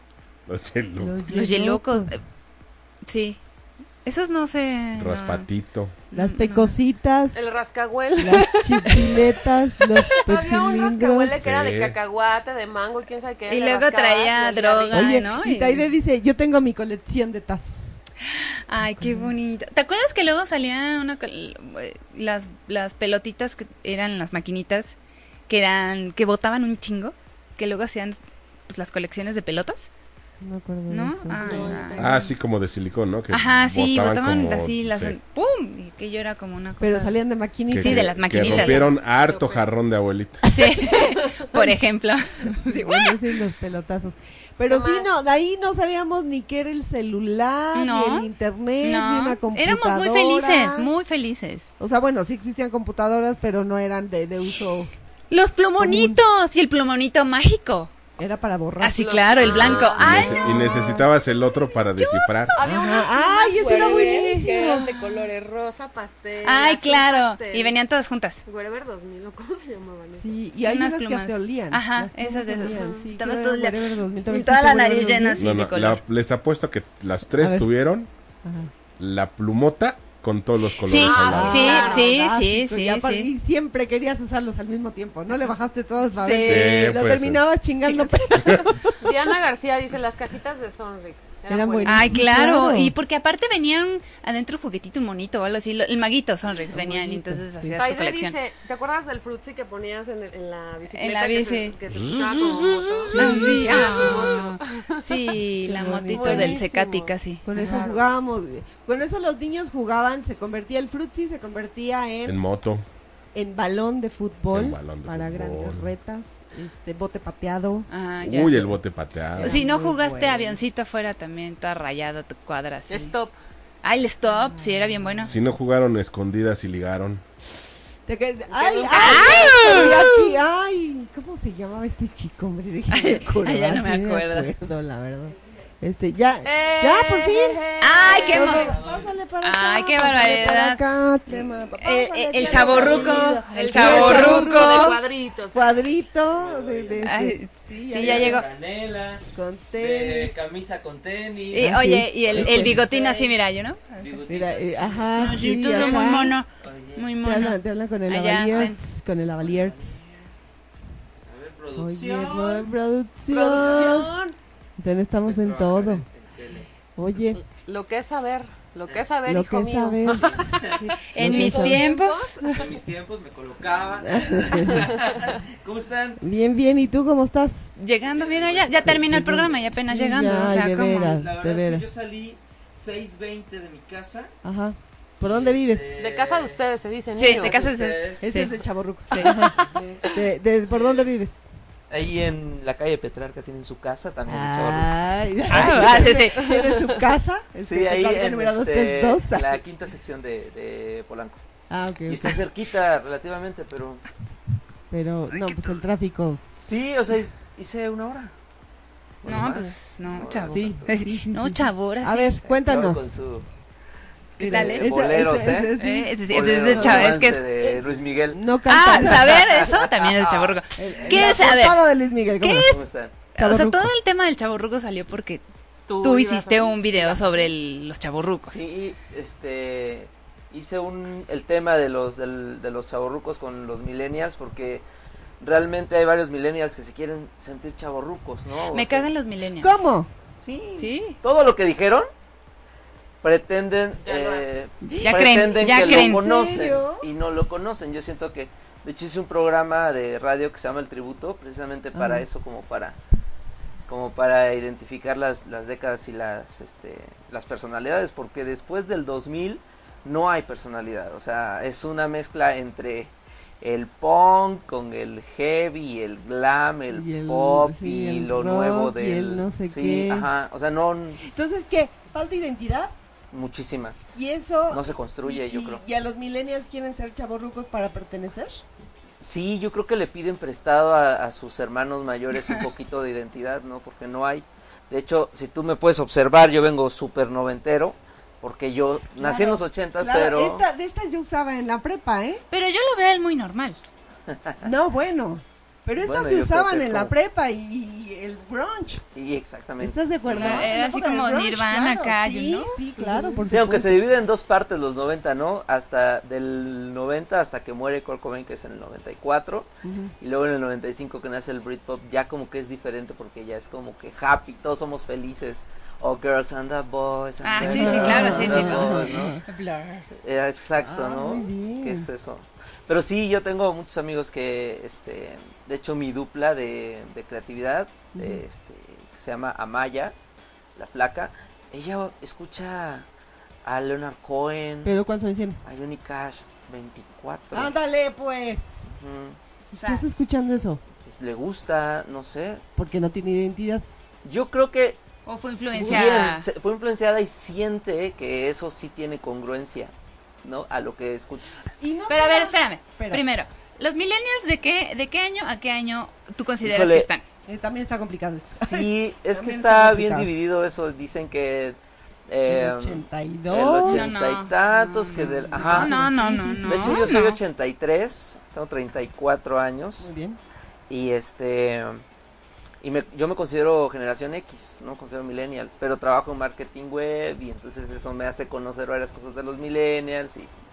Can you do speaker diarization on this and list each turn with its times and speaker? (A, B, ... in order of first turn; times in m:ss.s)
0:00.5-0:01.2 A
0:01.0-0:02.1 B
0:01.3-0:02.2 C
0:03.0-0:03.4 C
0:04.0-0:05.5 C
0:05.0-0:06.0 A
0:06.1-0:06.8 C
0:06.1-0:07.4 B
0:07.3-0:09.4 D
0:08.2-0:11.4 B
0:10.2-0:15.1 D
0:11.4-0:12.0 A
0:13.5-0:15.8 C
0:14.9-0:18.0 B
0:18.2-0:25.0 C
0:18.9-0:19.3 B
0:25.5-0:29.9 C
0:30.4-0:32.2 B
0:30.9-0:32.2 C
0:31.4-0:32.2 D
0:32.0-0:35.2 A
0:33.3-0:37.2 C
0:36.8-0:38.9 B
0:37.7-0:40.4 A
0:37.7-0:38.9 C
0:39.1-0:39.7 D
0:40.4-0:43.2 C
0:41.5-0:41.8 B
0:42.4-0:50.9 B
0:44.7-0:45.1 D
0:47.8-0:48.3 C
0:48.8-0:51.7 C
0:51.8-0:54.9 B
0:55.3-0:57.9 C
0:55.8-0:56.2 B
0:58.2-1:01.1 B
0:58.8-1:01.0 C
0:59.0-1:00.7 D
0:59.4-1:02.5 A
1:01.9-1:02.6 C
1:02.6-1:07.8 D
1:02.6-1:04.9 B
1:06.4-1:08.4 C
1:08.4-1:10.4 D
1:10.1-1:15.5 B
1:10.6-1:16.0 C
1:12.6-1:13.1 D
1:15.4-1:18.1 A
1:17.3-1:17.7 B
1:18.4-1:18.7 B
1:19.0-1:21.8 A
1:20.8-1:23.3 C
1:21.0-1:22.1 D
1:21.2-1:29.2 B
1:26.2-1:26.9 C
1:26.4-1:27.4 A
1:27.8-1:28.7 C
1:29.0-1:32.2 D
1:31.5-1:32.9 B
1:31.9-1:38.4 C
1:36.7-1:37.8 B
1:37.8-1:45.4 D
1:40.9-1:42.3 C
1:43.1-1:44.3 B
1:43.1-1:47.8 C
1:45.6-1:46.7 B
1:46.1-1:48.1 D
1:47.4-1:52.4 B
1:52.3-1:52.8 A
1:53.3-1:57.9 B
1:54.5-1:55.9 A
1:57.9-1:58.7 C
1:58.2-1:59.6 A
1:59.3-2:00.6 B
1:59.4-2:03.1 C
2:02.9-2:03.3 D
2:03.8-2:05.3 C
2:04.4-2:05.3 B
2:05.3-2:07.2 A
2:08.1-2:25.0 B
2:08.5-2:10.0 D
2:08.9-2:10.2 C
2:12.9-2:14.5 C
2:16.4-2:18.6 D
2:17.8-2:18.8 C
2:18.3-2:19.2 E
2:19.4-2:20.8 C
2:21.7-2:25.0 C
2:22.4-2:23.2 E
2:23.2-2:25.8 D
2:25.5-2:28.4 B
2:26.3-2:27.1 E
2:27.0-2:28.5 C
2:27.9-2:33.4 E
2:29.3-2:30.4 B
2:31.5-2:34.3 C
2:31.6-2:32.9 B
2:34.0-2:36.0 E
2:34.3-2:36.4 B
2:35.2-2:38.8 C
2:36.6-2:37.2 E
2:37.2-2:39.9 B
2:39.4-2:40.2 E
2:41.2-2:42.7 E
2:41.8-2:44.1 B
2:43.3-2:44.4 D
2:43.4-2:44.0 E
2:44.8-2:46.0 B
2:45.2-2:46.7 E
2:47.0-2:47.4 B
2:47.4-2:52.7 D
2:49.3-2:50.5 B
2:50.1-2:51.3 E
2:50.8-2:52.4 C
2:51.2-2:51.8 B
2:52.4-2:56.2 E
2:54.0-2:54.9 B
2:56.2-2:57.7 B
2:57.8-3:01.2 C
2:58.0-2:59.2 E
2:58.8-3:01.9 B
3:01.0-3:04.3 E
3:04.4-3:05.9 B
3:05.2-3:06.6 E
3:06.0-3:07.9 D
3:07.2-3:09.4 C
3:07.3-3:08.5 E
3:08.2-3:09.6 B
3:09.6-3:10.0 E
3:10.1-3:11.4 B
3:10.7-3:11.1 E
3:11.9-3:14.9 E
3:14.3-3:19.6 B
3:15.5-3:16.8 C
3:15.6-3:15.9 E
3:17.6-3:21.4 E
3:21.7-3:22.4 B
3:22.1-3:24.0 E
3:24.9-3:26.4 B
3:26.5-3:28.3 E
3:29.2-3:30.9 E
3:29.2-3:32.3 C
3:30.5-3:33.1 B
3:32.4-3:33.5 E
3:34.4-3:40.6 E
3:34.4-3:34.9 C
3:34.4-3:37.2 B
3:35.8-3:37.4 C
3:38.3-3:39.4 B
3:38.7-3:41.8 C
3:40.8-3:42.8 B
3:42.4-3:45.4 C
3:42.6-3:43.2 E
3:43.4-3:43.9 B
3:45.9-3:47.5 D
3:46.0-3:48.6 C
3:48.4-3:54.8 E
3:55.4-3:59.1 E
3:58.7-3:59.9 C
3:59.6-4:00.1 B
4:00.4-4:02.1 E
4:00.8-4:01.2 C
4:03.2-4:13.0 E
4:04.0-4:04.5 D
4:04.8-4:07.1 B
4:05.0-4:06.3 C
4:11.9-4:12.3 B
4:13.9-4:31.2 E
4:26.9-4:30.3 B
4:31.2-4:32.9 B
4:33.3-4:34.0 E
4:34.1-4:38.6 B
4:34.7-4:35.8 E
4:39.2-4:50.6 E
4:49.2-4:52.4 B
4:52.5-4:53.8 C
4:54.3-4:54.6 E
4:54.6-4:59.0 B
4:56.0-4:57.1 E
4:59.2-5:00.7 E
4:59.8-5:04.0 B
5:00.3-5:02.8 C
5:03.0-5:03.4 D
5:03.5-5:09.7 E
5:09.8-5:10.1 B
5:10.2-5:19.4 E
5:17.4-5:20.1 C
5:17.6-5:19.4 B
5:20.2-5:30.2 E
5:20.8-5:22.1 B
5:28.1-5:28.4 B
5:30.8-5:33.1 E
5:33.6-5:34.9 E
5:34.8-5:35.6 B
5:35.6-5:37.7 E
5:37.5-5:38.9 B
5:38.9-5:39.4 E
5:39.7-5:40.1 C
5:39.7-5:40.8 B
5:41.0-5:42.6 E
5:42.8-5:43.8 B
5:44.2-5:45.0 E
5:45.3-5:46.5 C
5:45.7-5:49.9 E
5:45.8-5:46.3 B
5:50.4-5:51.5 E
5:51.8-5:53.2 B
5:52.1-5:57.2 C
5:56.6-5:57.1 E
5:57.5-6:00.3 B
5:58.6-6:01.8 E
6:02.3-6:06.0 E
6:02.5-6:04.1 B
6:03.8-6:07.4 C
6:05.5-6:07.2 B
6:06.6-6:10.1 E
6:10.0-6:10.4 B
6:10.9-6:12.0 E
6:12.8-6:20.5 E